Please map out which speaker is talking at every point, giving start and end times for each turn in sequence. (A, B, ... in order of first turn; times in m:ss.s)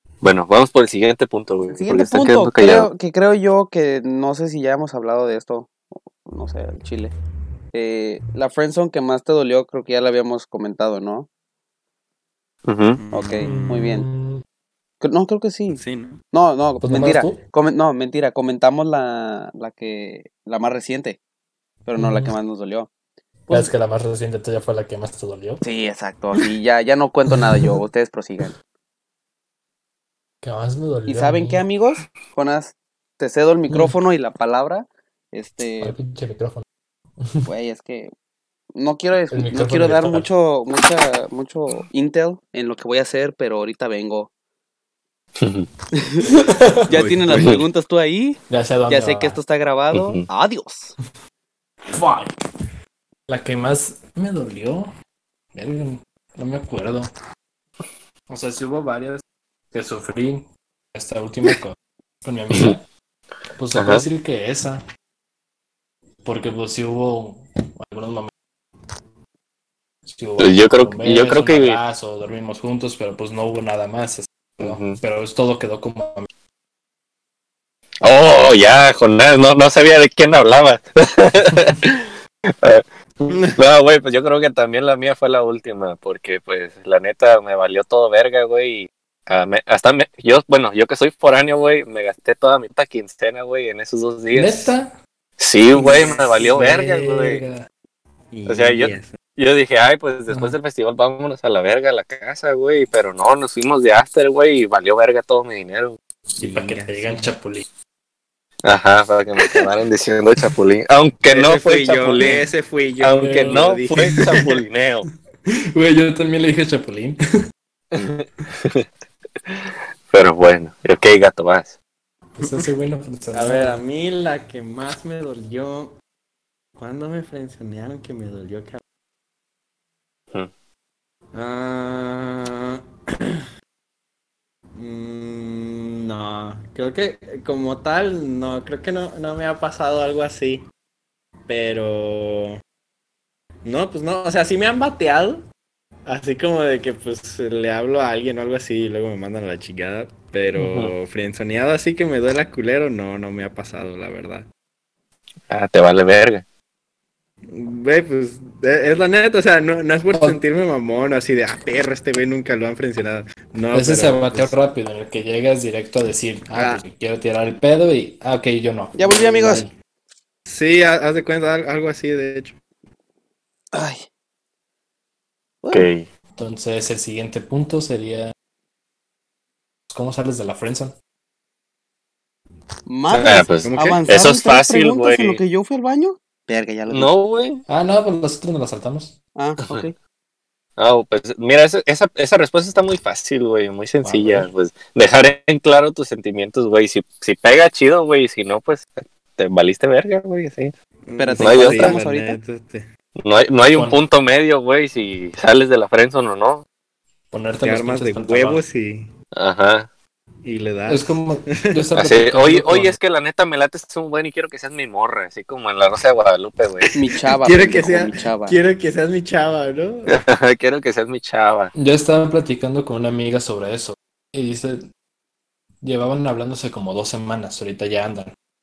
0:00.2-0:02.9 A
0:01.7-0:07.1 B
0:07.7-0:11.3 B
0:12.6-0:13.0 A
0:13.0-0:13.9 C
0:13.1-0:14.0 B
0:13.4-0:14.4 D
0:15.0-0:15.8 B
0:15.7-0:16.2 C
0:16.3-0:21.2 B
0:16.8-0:17.4 D
0:21.8-0:22.9 B
0:22.0-0:22.3 D
0:23.5-0:25.6 D
0:25.6-0:28.6 B
0:30.4-0:31.6 D
0:31.1-0:35.9 B
0:33.7-0:33.9 D
0:35.8-0:36.6 D
0:37.2-0:37.5 D
0:37.4-0:38.1 B
0:38.7-0:44.3 B
0:39.3-0:40.3 D
0:45.4-0:45.7 A
0:45.9-0:46.3 B
0:46.3-0:47.2 D
0:46.9-0:50.9 B
0:47.3-0:47.6 A
0:48.5-0:49.4 D
0:49.9-0:50.2 A
0:51.9-0:52.3 D
0:53.3-0:54.9 D
0:55.5-0:57.1 D
0:58.3-1:02.8 D
1:03.6-1:04.8 D
1:03.7-1:04.0 A
1:06.2-1:08.3 D
1:10.1-1:16.3 D
1:10.4-1:11.8 A
1:14.6-1:15.0 A
1:18.0-1:34.7 A
1:34.3-1:35.0 D
1:35.4-1:37.4 A
1:35.7-1:37.6 D
1:38.3-1:39.1 C
1:38.5-1:46.0 A
1:40.3-1:40.5 D
1:46.3-1:47.6 D
1:46.4-1:47.3 C
1:48.6-1:52.4 A
1:51.3-1:54.4 C
1:52.2-1:52.4 D
1:53.0-1:55.1 A
1:53.2-1:54.2 D
1:55.5-1:57.2 D
1:57.9-1:58.8 A
1:59.4-2:01.7 A
2:02.4-2:02.7 C
2:02.4-2:03.8 D
2:03.3-2:05.9 C
2:06.8-2:08.8 C
2:11.3-2:13.4 C
2:14.8-2:20.6 C
2:21.5-2:22.6 C
2:23.6-2:25.4 C
2:26.0-2:34.4 C
2:30.6-2:30.9 A
2:35.5-2:36.4 A
2:37.5-2:44.5 C
2:40.1-2:40.4 D
2:43.7-2:49.7 D
2:46.5-2:46.8 C
2:49.0-2:49.7 B
2:50.5-2:52.6 C
2:53.7-2:54.0 B
2:55.6-2:55.9 B
2:55.7-2:56.0 A
2:56.4-2:58.3 D
2:59.9-3:00.9 D
3:02.8-3:07.1 B
3:03.1-3:05.4 A
3:03.6-3:04.0 C
3:06.9-3:07.6 A
3:07.7-3:09.2 D
3:09.4-3:09.9 B
3:10.8-3:20.7 A
3:14.0-3:14.5 D
3:21.1-3:22.9 C
3:21.2-3:22.4 B
3:21.4-3:22.0 A
3:23.2-3:26.6 A
3:23.7-3:24.0 D
3:27.3-3:28.6 D
3:27.6-3:29.1 C
3:29.3-3:29.9 A
3:30.4-3:31.1 C
3:30.9-3:33.0 D
3:32.0-3:37.0 A
3:36.9-3:38.6 B
3:37.4-3:40.2 C
3:40.1-3:41.7 A
3:41.7-3:44.8 D
3:45.8-3:48.3 D